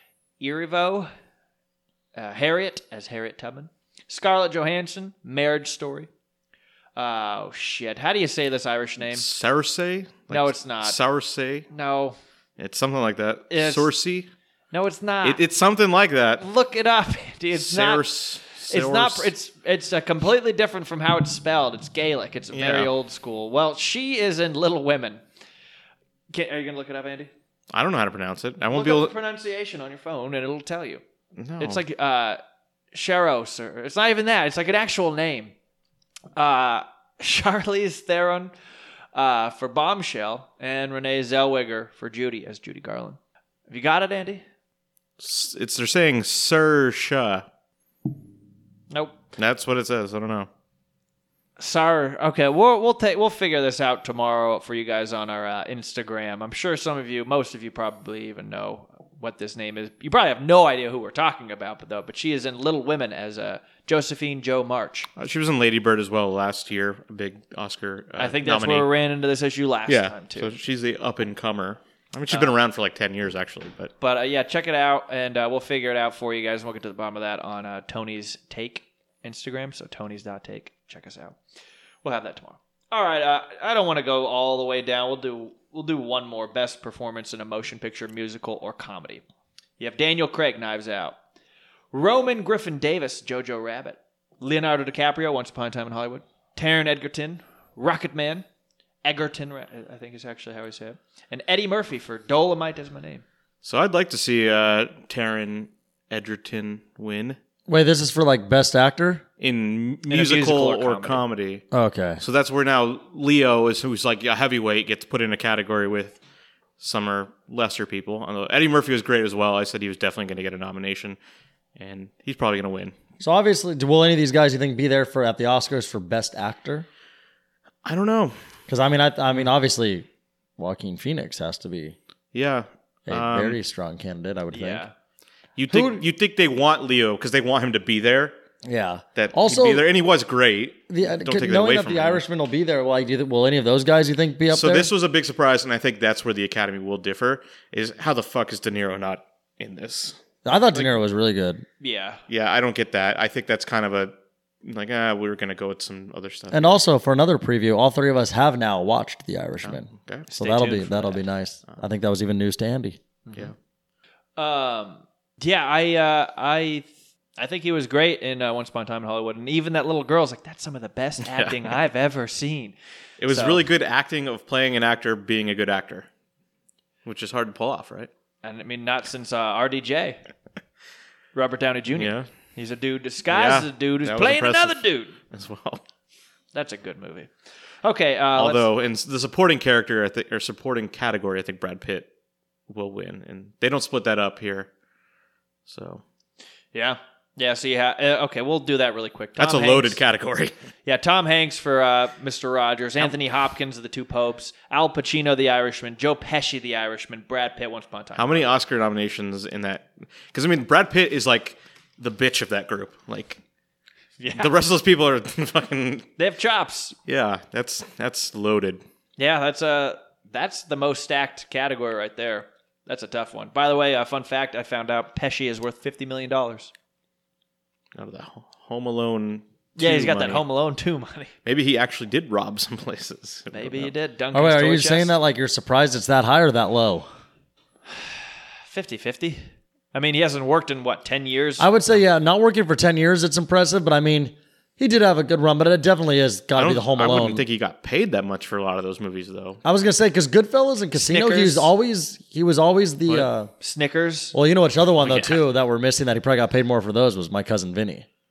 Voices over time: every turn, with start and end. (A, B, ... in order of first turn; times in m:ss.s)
0:00.4-0:01.1 A
0:02.1-0:06.1 A
0:07.0-0:09.2 A
0:09.1-0:11.7 B
0:10.3-0:11.0 A
0:11.7-0:12.2 A
0:12.6-0:14.3 B
0:13.5-0:13.9 A
0:14.7-0:15.4 A
0:15.2-0:16.4 B
0:16.4-0:25.2 A
0:17.5-0:19.3 B
0:22.5-0:22.9 B
0:26.3-0:27.3 A
0:27.7-0:29.1 B
0:28.7-0:31.0 A
0:31.3-0:31.8 B
0:31.6-0:32.4 A
0:32.9-0:35.5 A
0:36.4-0:38.5 A
0:39.1-0:44.4 A
0:45.2-0:47.4 B
0:48.9-0:49.2 A
0:49.4-0:50.5 B
0:51.6-1:05.1 A
1:05.2-1:08.9 B
1:08.2-1:10.5 A
1:09.9-1:13.9 B
1:12.3-1:12.5 A
1:14.0-1:21.4 A
1:22.0-1:29.2 A
1:29.8-1:31.2 A
1:31.9-1:38.4 A
1:39.0-1:43.2 A
1:43.6-1:47.4 B
1:47.7-1:49.2 C
1:49.4-1:51.6 B
1:50.1-1:51.2 A
1:51.7-1:52.2 C
1:52.2-1:56.2 B
1:56.8-2:01.2 B
2:01.8-2:02.9 B
2:03.2-2:06.9 C
2:07.8-2:08.4 B
2:08.7-2:10.1 C
2:10.6-2:12.0 C
2:12.3-2:13.6 B
2:13.1-2:14.8 C
2:14.5-2:14.9 A
2:15.6-2:18.4 B
2:15.7-2:16.0 C
2:18.6-2:19.8 C
2:19.2-2:22.2 B
2:20.9-2:24.9 C
2:24.5-2:30.2 B
2:30.4-2:31.6 C
2:31.8-2:32.2 A
2:32.3-2:36.8 B
2:36.5-2:43.0 C
2:39.6-2:40.3 B
2:40.3-2:41.2 A
2:43.2-2:43.5 A
2:44.4-2:52.8 A
2:51.2-2:51.7 B
2:53.2-2:56.1 B
2:53.3-2:53.6 A
2:57.0-2:58.1 B
2:58.4-3:00.2 A
3:01.3-3:05.2 A
3:01.9-3:02.3 B
3:03.3-3:05.8 B
3:06.5-3:07.3 A
3:07.8-3:08.7 A
3:08.4-3:12.1 B
3:12.7-3:14.7 B
3:15.7-3:16.0 B
3:16.7-3:20.0 A
3:19.4-3:20.5 B
3:20.8-3:28.5 A
3:28.2-3:33.4 B
3:34.2-3:34.5 A
3:34.4-3:36.1 B
3:36.2-3:37.0 A
3:37.0-3:38.8 B
3:39.2-3:46.7 A
3:47.9-3:50.4 B
3:49.8-3:51.3 A
3:51.4-3:53.9 B
3:53.5-3:55.1 A
3:54.3-3:57.1 C
3:58.6-4:01.7 A
4:01.6-4:07.4 C
4:06.5-4:09.6 B
4:09.6-4:13.5 C
4:11.0-4:11.7 A
4:13.6-4:14.3 A
4:14.3-4:18.1 C
4:15.0-4:15.4 B